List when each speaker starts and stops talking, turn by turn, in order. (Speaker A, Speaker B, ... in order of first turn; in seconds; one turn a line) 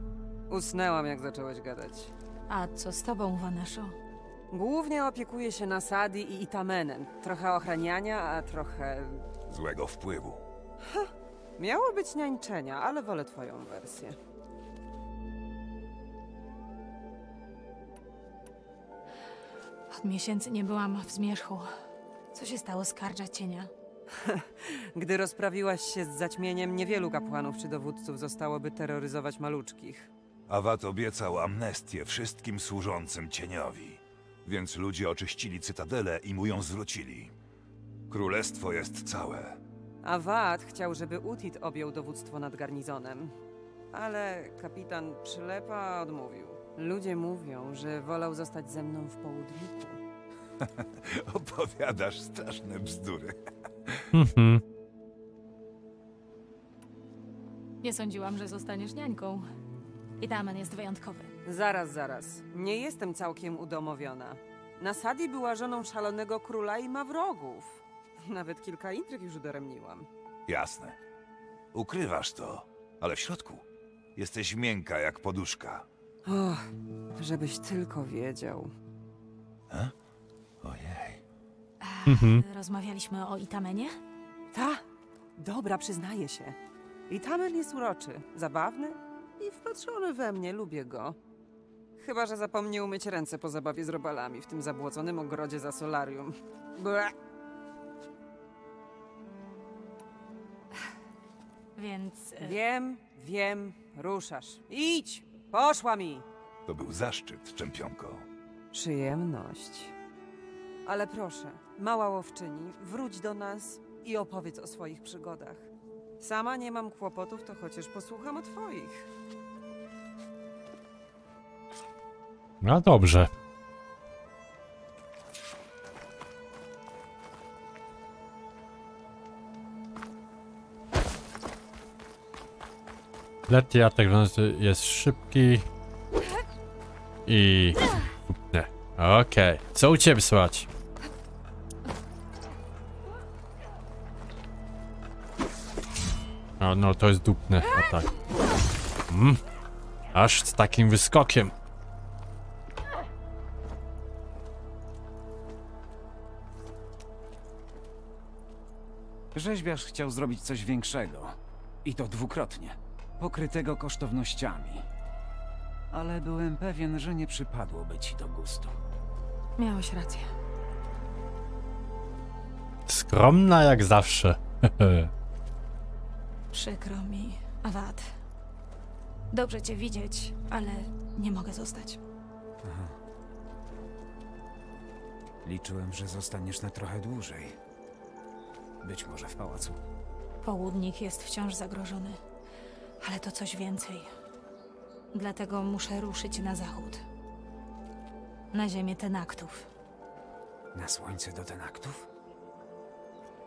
Speaker A: 0.5-2.1
Speaker B: 2.5-4.0
Speaker A: 4.5-9.2
Speaker C: 9.5-10.4
Speaker A: 10.8-14.2
Speaker B: 19.9-21.7
Speaker B: 22.3-23.7
Speaker A: 24.1-30.1
Speaker C: 30.5-37.3
Speaker C: 38.1-39.6
Speaker A: 40.0-43.3
Speaker A: 43.9-50.0
Speaker C: 50.6-54.0
Speaker D: 54.1-54.6
Speaker B: 57.8-59.5
Speaker B: 60.2-61.3
Speaker A: 61.5-70.1
Speaker C: 70.5-71.0
Speaker C: 71.7-73.6
Speaker C: 74.2-75.8
Speaker A: 76.3-78.7
Speaker C: 80.6-81.2
Speaker B: 81.8-84.0
Speaker D: 82.1-82.4
Speaker A: 84.5-84.8
Speaker A: 85.4-86.6
Speaker A: 87.1-91.2
Speaker A: 92.0-97.1
Speaker B: 101.8-102.6
Speaker A: 102.4-106.3
Speaker C: 106.7-108.2
Speaker A: 108.7-109.9
Speaker A: 110.8-115.7
Speaker A: 116.2-119.1
Speaker D: 122.6-123.3
Speaker D: 133.5-135.7
Speaker D: 137.3-140.7
Speaker D: 146.6-148.1
Speaker D: 149.1-149.4
Speaker D: 150.1-151.5
Speaker E: 159.3-164.9
Speaker E: 165.9-168.8
Speaker B: 169.6-170.3
Speaker D: 172.9-175.1
Speaker B: 176.5-178.1
Speaker B: 179.3-182.0
Speaker E: 182.6-183.0
Speaker E: 185.4-187.6
Speaker E: 188.8-189.8
Speaker B: 190.4-192.2
Speaker B: 193.0-194.1
Speaker B: 195.1-197.0
Speaker B: 198.5-199.7
Speaker E: 200.7-202.1